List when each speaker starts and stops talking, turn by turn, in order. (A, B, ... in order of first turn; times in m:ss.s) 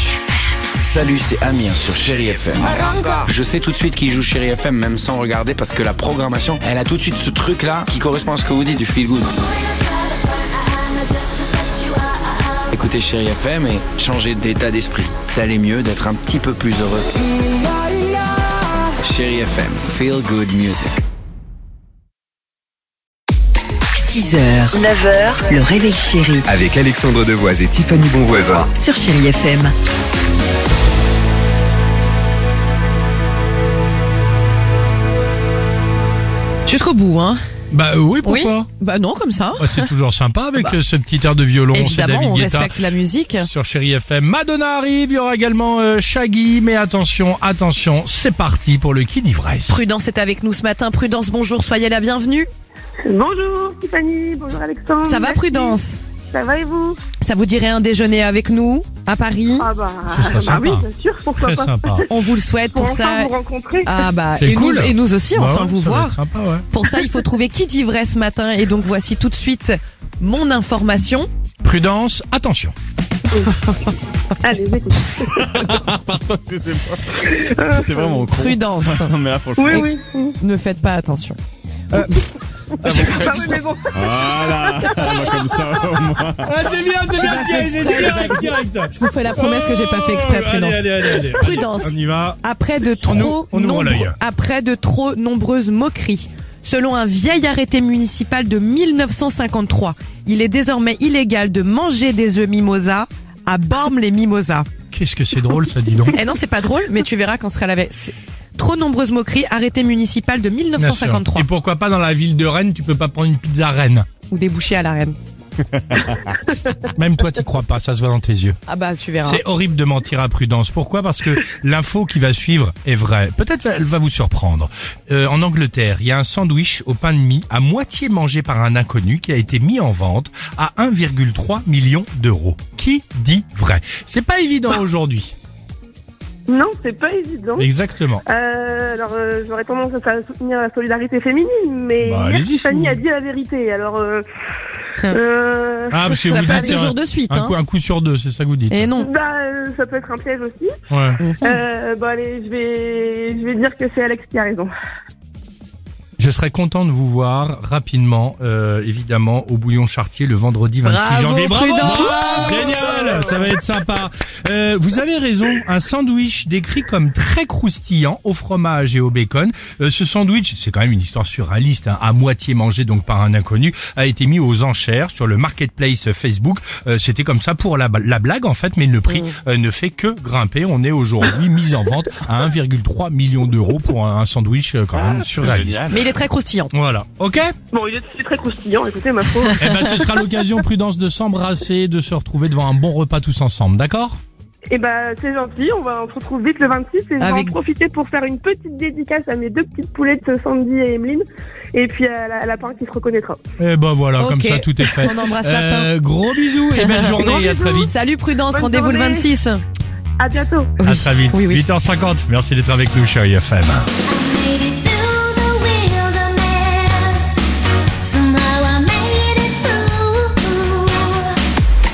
0:00.8-0:09.3 A
0:11.1-0:11.8 B
0:12.7-0:17.0 A
0:19.0-0:21.0 A
0:23.9-0:24.8 C
0:25.4-0:26.5 C
0:26.4-0:28.7 D
0:28.7-0:29.7 C
0:36.6-0:37.4 E
0:37.7-0:38.7 F
0:38.2-0:39.9 E
0:39.6-0:42.7 F
0:41.7-0:43.5 E
0:43.4-0:49.8 F
0:49.7-0:52.5 E
0:53.0-0:55.8 G
0:55.0-0:56.0 E
0:56.3-0:57.0 G
0:57.2-0:59.7 E
0:59.6-1:01.6 G
1:00.1-1:00.9 F
1:01.4-1:02.1 F
1:02.1-1:03.3 E
1:02.7-1:03.9 G
1:03.8-1:06.2 E
1:04.4-1:06.7 F
1:06.7-1:11.3 E
1:11.6-1:12.8 F
1:14.4-1:15.0 G
1:15.2-1:19.9 H
1:17.2-1:18.3 G
1:18.3-1:19.1 E
1:19.6-1:20.4 G
1:20.4-1:21.4 E
1:21.9-1:22.3 E
1:22.8-1:23.6 E
1:22.8-1:26.6 H
1:22.9-1:25.6 G
1:26.4-1:32.4 F
1:27.1-1:44.7 E
1:27.8-1:28.2 H
1:33.0-1:34.2 F
1:44.9-1:46.2 F
1:46.1-1:51.5 E
1:50.8-1:54.1 F
1:54.3-1:55.2 E
1:56.7-1:58.6 F
1:58.7-1:59.4 E
1:59.2-2:15.3 F
2:16.5-2:17.7 G
2:17.6-2:18.2 F
2:18.3-2:24.2 G
2:22.0-2:23.0 F
2:25.1-2:26.8 G
2:25.9-2:28.9 F
2:26.2-2:27.6 E
2:28.7-2:29.1 E
2:29.0-2:30.7 G
2:30.9-2:31.2 F
2:31.2-2:31.6 E
2:31.4-2:34.7 G
2:36.2-3:06.1 F
2:40.8-2:42.9 E
2:42.3-2:42.8 H
2:59.1-2:59.3 E
3:05.1-3:06.1 H
3:05.9-3:06.7 E
3:06.7-3:07.6 F
3:07.7-3:09.6 G
3:09.6-3:14.2 F
3:14.7-3:23.4 G
3:17.2-3:17.6 E
3:23.6-3:27.9 F
3:24.2-3:25.9 E
3:27.2-3:27.9 G
3:27.9-3:29.6 E
3:28.5-3:29.3 G
3:30.2-3:30.8 G
3:30.8-3:31.6 E
3:30.8-3:33.9 F
3:34.1-3:37.4 B
3:38.0-3:41.4 B